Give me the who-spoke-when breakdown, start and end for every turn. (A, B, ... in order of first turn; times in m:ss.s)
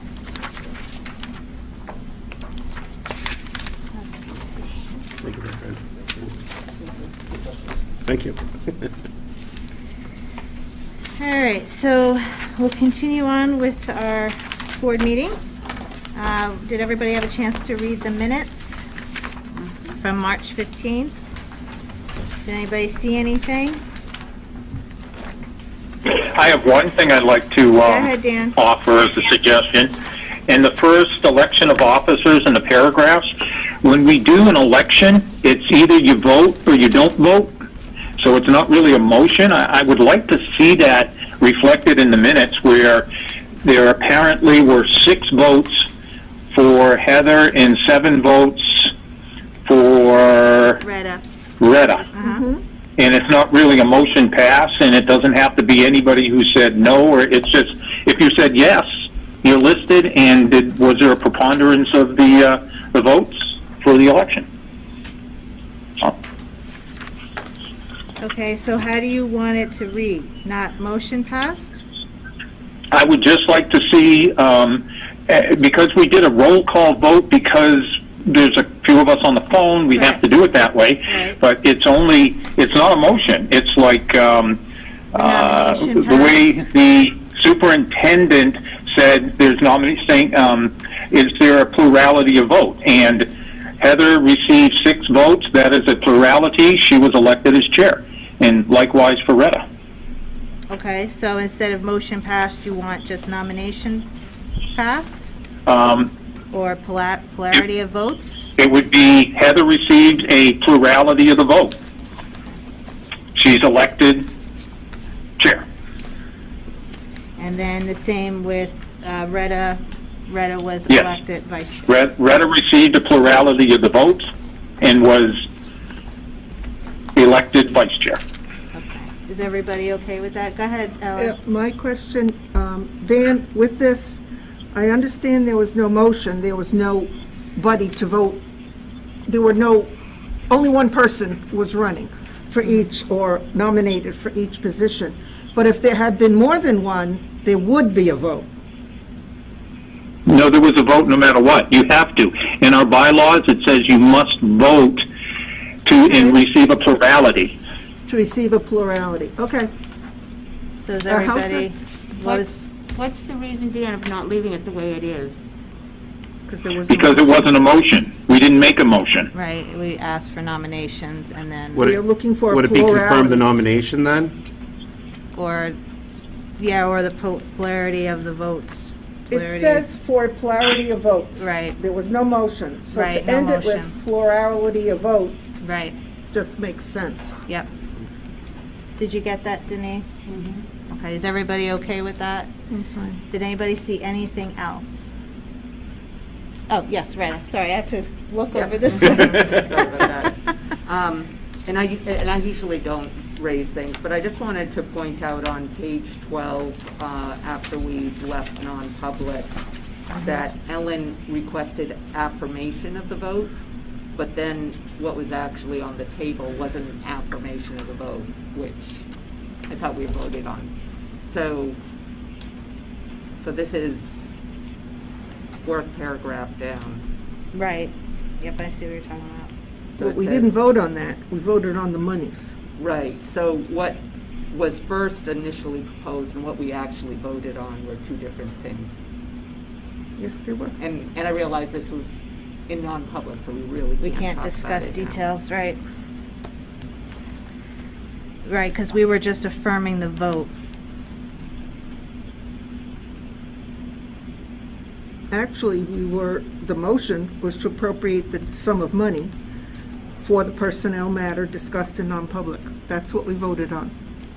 0:05.2-0:05.8 A
0:08.0-0:08.9 A
0:11.2-0:15.4 B
0:16.1-0:18.8 B
0:19.9-0:21.1 B
0:22.4-0:23.8 B
0:26.0-0:29.9 C
0:27.8-0:28.6 B
0:30.5-0:33.3 C
0:33.8-0:37.6 C
0:38.2-0:43.1 C
0:43.6-0:45.9 C
0:46.5-0:48.9 C
0:49.6-0:50.8 C
0:50.8-0:51.2 B
0:51.6-0:52.1 C
0:52.1-0:52.4 B
0:52.2-0:52.6 D
0:53.0-0:58.9 C
0:59.4-1:04.4 C
1:08.2-1:11.8 B
1:12.9-1:24.6 C
1:21.1-1:21.4 B
1:25.1-1:33.3 C
1:25.1-1:26.5 B
1:33.8-1:39.6 C
1:40.7-1:44.1 B
1:44.7-1:45.3 B
1:45.7-1:46.1 C
1:46.5-1:48.5 B
1:48.6-1:51.8 C
1:53.3-1:54.3 C
1:55.4-1:55.6 C
1:57.4-2:01.8 B
2:00.9-2:01.1 C
2:01.9-2:04.3 C
2:04.8-2:05.4 C
2:07.2-2:08.2 C
2:08.7-2:11.4 B
2:11.2-2:14.2 D
2:14.7-2:18.4 D
2:19.3-2:19.9 D
2:20.5-2:28.4 D
2:30.2-2:35.0 C
2:35.8-2:37.5 C
2:36.0-2:36.4 D
2:38.0-2:39.7 D
2:40.8-2:42.6 B
2:41.1-2:41.6 D
2:42.2-2:45.4 E
2:46.5-2:47.4 D
2:46.9-2:49.3 C
2:49.3-2:51.9 B
2:51.7-2:54.3 A
2:51.8-2:53.4 D
2:55.3-2:55.8 B
2:56.6-2:59.8 B
2:59.3-3:05.4 D
3:01.4-3:01.8 B
3:02.9-3:03.9 B
3:05.6-3:05.9 B
3:06.3-3:07.4 D
3:09.0-3:10.3 B
3:10.9-3:12.5 B
3:12.7-3:13.2 D
3:13.3-3:15.1 B
3:16.7-3:19.8 B
3:18.5-3:29.5 F
3:30.1-3:33.5 F
3:34.1-3:39.0 F
3:39.7-3:40.7 F
3:41.2-3:41.8 F
3:43.4-3:44.3 F
3:45.6-3:47.0 F
3:47.5-3:49.5 B
3:49.9-3:50.5 F
3:50.0-3:52.5 D
3:52.8-3:59.0 F
4:00.2-4:00.7 D
4:00.8-4:05.2 F
4:04.0-4:05.8 B
4:08.4-4:10.5 B
4:15.3-4:19.3 D
4:20.2-4:23.9 D